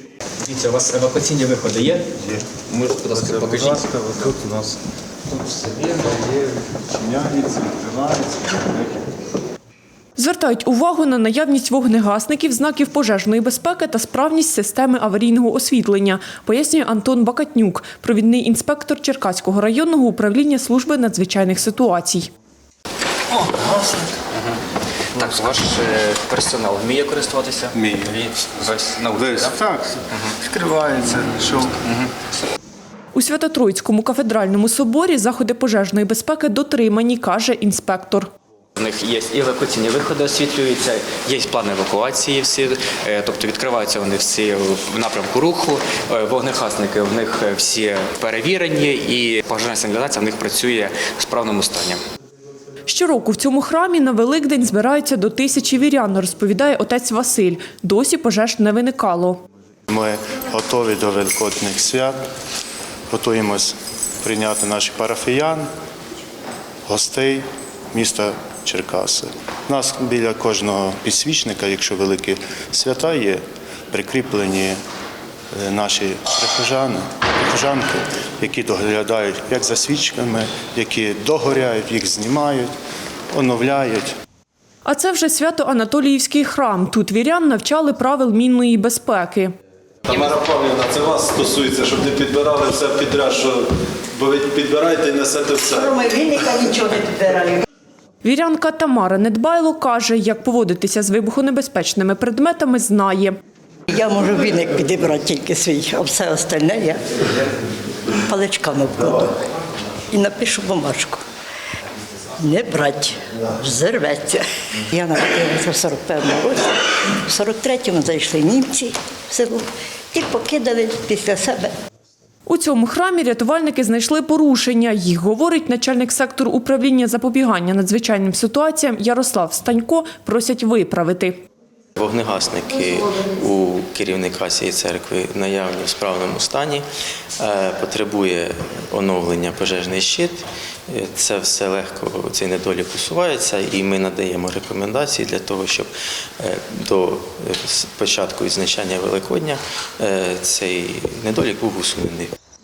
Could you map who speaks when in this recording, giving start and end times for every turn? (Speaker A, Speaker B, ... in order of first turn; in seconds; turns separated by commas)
Speaker A: 0.4-2.1, Speaker A: 2.7-3.8, Speaker B: 3.1-4.5, Speaker B: 7.1-8.7, Speaker C: 10.2-22.3, Speaker A: 24.3-24.6, Speaker A: 25.1-29.5, Speaker B: 30.5-30.8, Speaker D: 30.7-31.4, Speaker A: 31.8-32.0, Speaker C: 33.1-38.3, Speaker A: 38.8-52.0, Speaker C: 52.9-59.4, Speaker D: 59.9-62.2, Speaker D: 63.1-65.7, Speaker D: 66.8-74.8, Speaker D: 75.5-82.7, Speaker D: 83.3-84.1, Speaker C: 84.8-89.5, Speaker E: 90.0-95.9, Speaker F: 95.6-97.6, Speaker C: 98.2-103.3, Speaker F: 103.9-107.0, Speaker F: 108.2-109.3, Speaker F: 110.1-111.2, Speaker F: 112.4-121.7, Speaker C: 122.5-131.4, Speaker G: 131.9-136.8, Speaker G: 137.4-145.9, Speaker G: 146.4-152.3